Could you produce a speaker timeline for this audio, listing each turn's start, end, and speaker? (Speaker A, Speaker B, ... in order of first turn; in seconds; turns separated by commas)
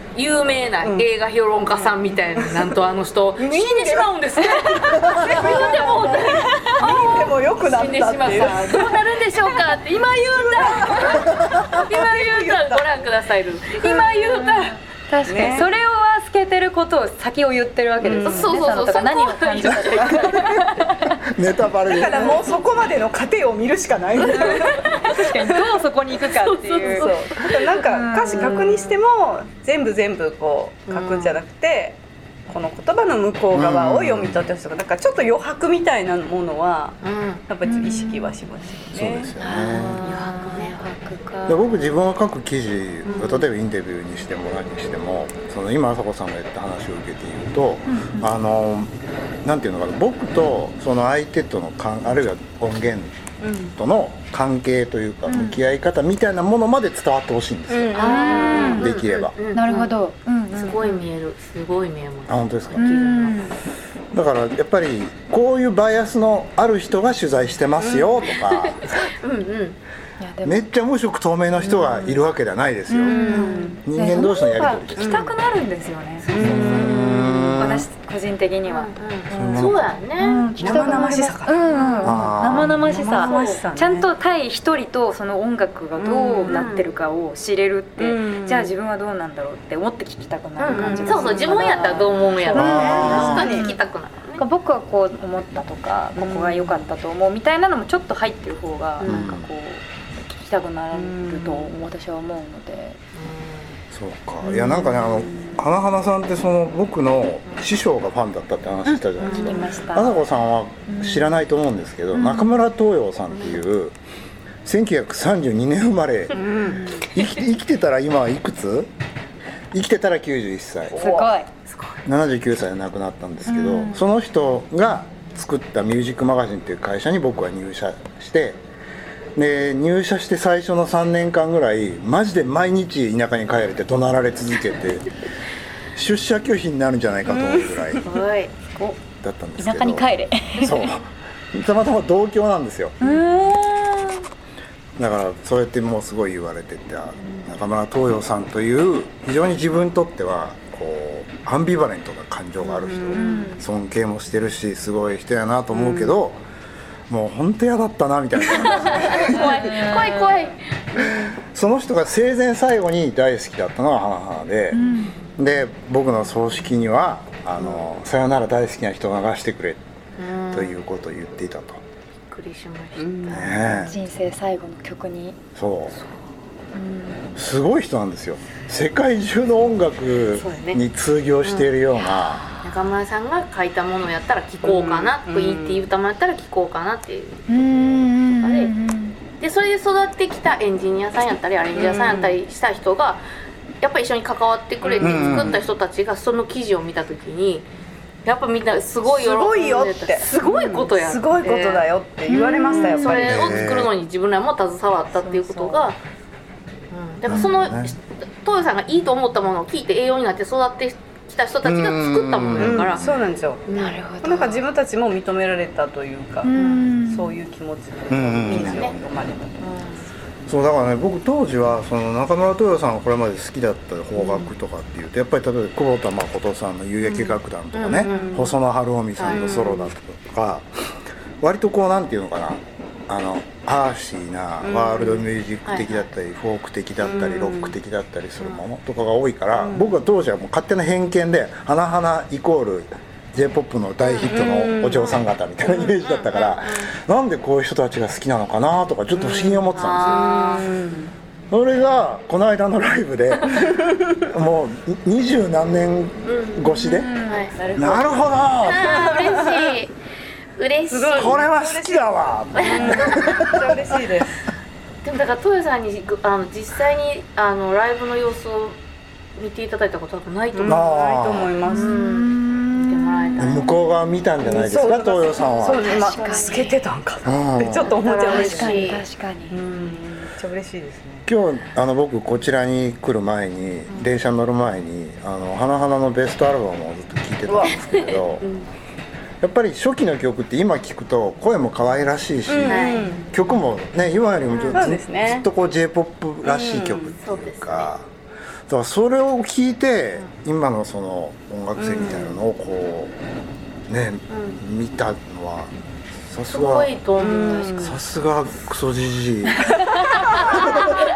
Speaker A: 0.1-14.8, Speaker B: 1.7-2.7, Speaker B: 3.4-9.6, Speaker B: 10.2-13.1, Speaker C: 11.3-11.6, Speaker D: 13.8-21.2, Speaker B: 15.2-15.7, Speaker B: 18.0-18.5, Speaker A: 18.2-20.5, Speaker C: 20.1-22.4, Speaker B: 21.9-25.6, Speaker D: 24.2-27.1, Speaker A: 24.4-25.3, Speaker A: 26.1-27.7, Speaker B: 26.8-39.3, Speaker D: 27.7-29.0, Speaker A: 28.3-28.7, Speaker A: 30.9-31.4, Speaker C: 33.5-34.4, Speaker A: 37.0-37.4, Speaker D: 37.6-38.4, Speaker C: 38.9-40.0, Speaker D: 39.4-42.0, Speaker A: 39.7-40.8, Speaker C: 41.5-48.9, Speaker D: 47.9-48.3, Speaker C: 49.4-53.2, Speaker B: 53.4-53.8, Speaker C: 53.7-58.0, Speaker D: 55.3-55.6, Speaker B: 57.7-58.8, Speaker A: 57.9-59.9, Speaker D: 58.0-58.9, Speaker C: 58.7-59.3, Speaker D: 59.5-61.1, Speaker A: 60.5-63.4, Speaker C: 62.3-62.9, Speaker D: 62.8-63.6, Speaker C: 64.1-69.1, Speaker A: 67.8-69.8, Speaker D: 70.2-70.7, Speaker C: 70.4-75.3, Speaker B: 71.6-72.2, Speaker D: 72.9-93.7, Speaker B: 73.0-74.2, Speaker A: 73.3-73.5, Speaker B: 75.0-75.3, Speaker B: 76.3-77.5, Speaker C: 76.3-77.9, Speaker A: 78.7-81.1, Speaker C: 79.3-79.9, Speaker B: 80.6-84.1, Speaker C: 82.0-82.8, Speaker B: 86.0-86.7, Speaker A: 86.5-86.9, Speaker B: 88.0-88.8, Speaker A: 90.6-94.4, Speaker B: 90.7-91.4, Speaker B: 92.5-93.8, Speaker C: 92.5-93.5, Speaker D: 94.4-103.0, Speaker B: 96.2-96.8, Speaker A: 99.0-99.3, Speaker C: 99.1-99.5, Speaker B: 100.9-101.7, Speaker A: 103.2-103.8, Speaker C: 103.9-114.0, Speaker D: 104.5-105.7, Speaker D: 108.8-110.2, Speaker A: 109.2-109.8, Speaker D: 110.9-111.3, Speaker D: 112.1-112.6, Speaker C: 114.6-118.9, Speaker B: 116.3-117.0, Speaker D: 116.8-117.1, Speaker C: 119.7-121.2, Speaker B: 121.0-121.3, Speaker D: 121.0-121.5, Speaker C: 122.1-128.6, Speaker D: 123.5-124.0, Speaker C: 129.3-135.1, Speaker C: 135.9-138.1, Speaker B: 137.3-138.0, Speaker A: 138.1-138.5, Speaker D: 138.7-139.0, Speaker C: 139.2-142.9, Speaker D: 139.6-140.9, Speaker D: 143.0-144.2, Speaker C: 145.0-156.4, Speaker B: 152.6-153.4, Speaker D: 153.1-153.6, Speaker B: 155.7-156.2, Speaker C: 157.1-159.8, Speaker A: 158.5-161.3, Speaker D: 159.1-160.6, Speaker C: 161.3-164.8, Speaker D: 164.7-165.2, Speaker C: 165.4-169.8, Speaker A: 167.6-167.9, Speaker A: 170.2-170.8, Speaker C: 170.5-171.8, Speaker A: 172.3-173.7, Speaker B: 173.0-173.8, Speaker C: 173.3-174.0, Speaker D: 173.8-175.4, Speaker C: 175.6-175.9, Speaker D: 176.7-177.3, Speaker C: 177.3-182.6, Speaker A: 180.3-180.8, Speaker A: 181.4-181.7, Speaker A: 182.6-188.7, Speaker B: 184.6-185.9, Speaker D: 187.5-189.2, Speaker A: 189.4-193.2, Speaker B: 191.7-192.4, Speaker A: 193.8-197.7, Speaker B: 194.8-195.6, Speaker C: 195.0-195.6, Speaker A: 198.2-201.9, Speaker B: 199.1-203.6, Speaker D: 202.3-203.3, Speaker A: 202.7-206.0, Speaker C: 203.3-203.9, Speaker B: 205.1-205.9, Speaker A: 206.9-213.1, Speaker C: 207.3-207.9, Speaker C: 211.6-213.1, Speaker B: 212.6-213.7, Speaker A: 213.7-214.1, Speaker D: 213.7-214.6, Speaker B: 214.2-219.6, Speaker D: 216.4-217.4, Speaker A: 216.5-216.9, Speaker C: 218.1-219.0, Speaker A: 218.5-219.0, Speaker A: 219.6-220.1, Speaker C: 220.5-230.7, Speaker A: 227.0-228.5, Speaker B: 228.0-228.5, Speaker A: 229.2-229.5, Speaker B: 229.3-229.9, Speaker C: 231.4-250.4, Speaker B: 234.6-235.3, Speaker A: 235.7-236.1, Speaker B: 237.0-237.8, Speaker B: 239.6-240.0, Speaker A: 244.0-244.3, Speaker B: 244.2-245.3, Speaker A: 245.7-246.9, Speaker B: 249.2-251.1, Speaker A: 249.8-250.7, Speaker C: 251.5-257.1, Speaker A: 256.2-256.7, Speaker D: 256.7-258.2, Speaker A: 257.3-257.6, Speaker B: 257.7-258.2, Speaker C: 257.8-259.1, Speaker A: 258.6-259.9, Speaker B: 258.9-259.7, Speaker A: 260.6-261.4, Speaker B: 260.9-264.3, Speaker C: 261.1-263.9, Speaker A: 262.6-263.0, Speaker A: 265.0-268.8, Speaker A: 269.4-270.9, Speaker B: 270.5-271.9, Speaker C: 270.7-271.5, Speaker A: 271.7-273.7, Speaker D: 271.7-274.0, Speaker C: 273.4-276.0, Speaker B: 274.4-279.0, Speaker D: 275.6-276.8, Speaker C: 277.2-277.9, Speaker A: 277.9-279.0, Speaker D: 278.1-279.6, Speaker B: 279.5-281.3, Speaker C: 281.3-288.4, Speaker B: 287.5-287.8, Speaker A: 287.7-288.2, Speaker C: 289.4-298.1, Speaker B: 292.5-293.3, Speaker A: 292.6-293.2, Speaker A: 294.5-294.9, Speaker B: 294.7-295.5, Speaker B: 296.4-297.1, Speaker A: 297.2-297.9, Speaker C: 298.7-303.1, Speaker B: 301.8-302.4, Speaker C: 303.9-305.7, Speaker A: 304.3-304.6, Speaker C: 306.3-306.9, Speaker A: 306.5-307.9, Speaker B: 307.2-308.0, Speaker C: 307.8-309.8